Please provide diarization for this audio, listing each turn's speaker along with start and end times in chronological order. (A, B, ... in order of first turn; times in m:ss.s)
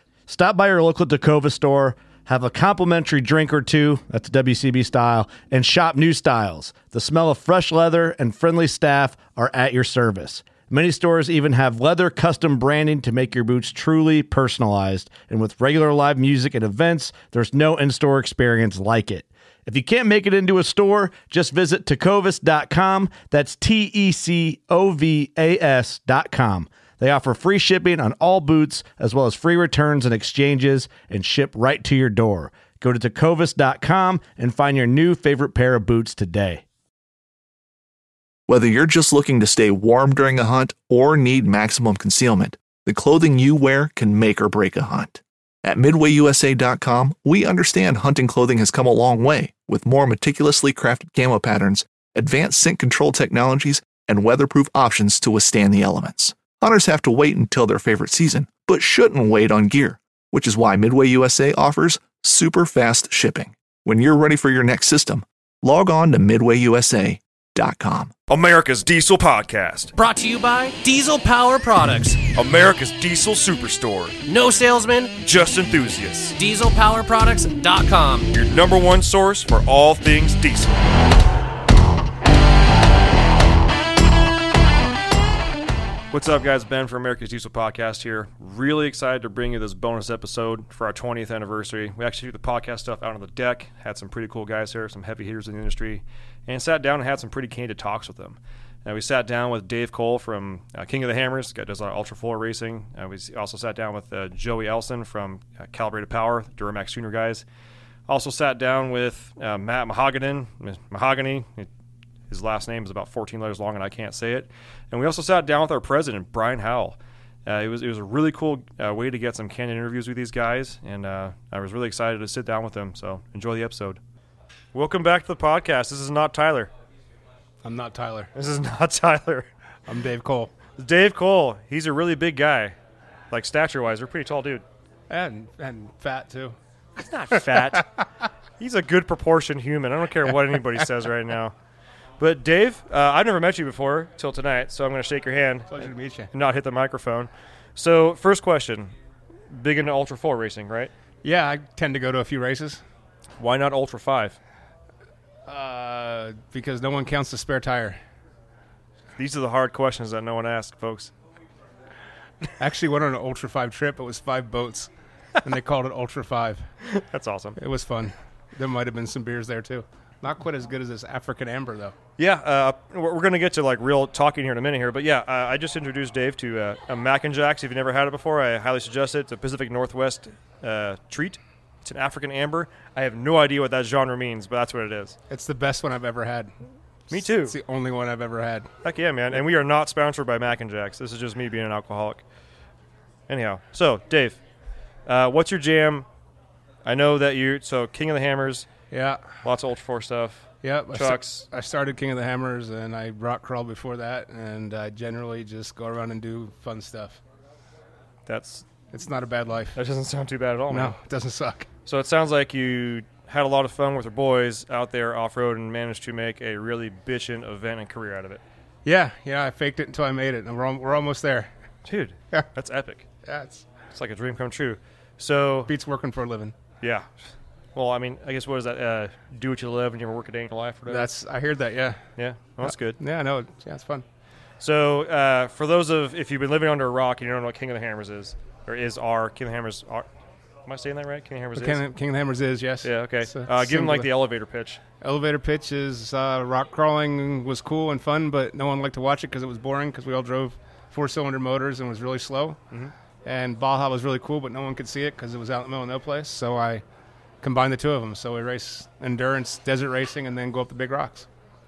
0:00.3-0:36.6 A
0:38.5-1:08.2 B
1:08.3-1:09.9 C
1:10.0-1:12.3 D
1:12.2-1:14.2 C
1:14.3-1:15.2 D
1:15.2-1:16.4 C
1:16.4-1:18.3 D
1:18.3-1:20.7 C
1:26.1-1:47.4 C
1:48.1-1:51.7 C
1:52.3-2:04.0 C
2:04.7-2:06.7 C
2:07.6-2:08.3 E
2:08.3-2:09.5 C
2:09.9-2:10.5 E
2:10.8-2:12.7 C
2:13.3-2:14.6 C
2:15.1-2:16.6 E
2:17.0-2:17.9 C
2:17.3-2:17.8 E
2:18.6-2:21.5 C
2:22.2-2:28.9 C
2:25.7-2:26.3 E
2:29.5-2:30.9 C
2:31.2-2:32.8 E
2:33.4-2:34.4 C
2:35.5-2:38.0 E
2:39.2-2:41.1 C
2:42.6-2:44.9 E
2:45.4-2:46.6 E
2:46.8-2:47.6 C
2:47.6-2:51.9 E
2:52.2-3:05.2 C
3:05.3-3:06.5 E
3:07.1-3:07.6 C
3:07.1-3:08.7 E
3:08.8-3:12.2 C
3:13.3-3:14.4 C
3:15.0-3:16.0 C
3:16.8-3:18.7 C
3:18.9-3:19.2 E
3:19.4-3:21.4 C
3:20.6-3:27.2 E
3:28.3-3:28.6 C
3:28.9-3:29.8 E
3:29.7-3:31.0 C
3:30.7-3:31.7 E
3:31.8-3:38.4 C
3:38.8-3:41.5 E
3:41.8-3:43.0 C
3:43.2-3:43.6 E
3:43.9-3:45.7 C
3:45.7-3:46.5 E
3:46.8-3:47.1 C
3:47.7-3:51.1 C
3:50.9-3:52.0 E
3:52.2-3:53.0 C
3:52.6-3:54.0 E
3:54.6-4:00.1 C
4:00.6-4:01.8 C
4:01.5-4:04.1 E
4:02.8-4:04.8 C
4:05.0-4:12.6 E
4:13.2-4:16.8 E
4:17.4-4:21.3 E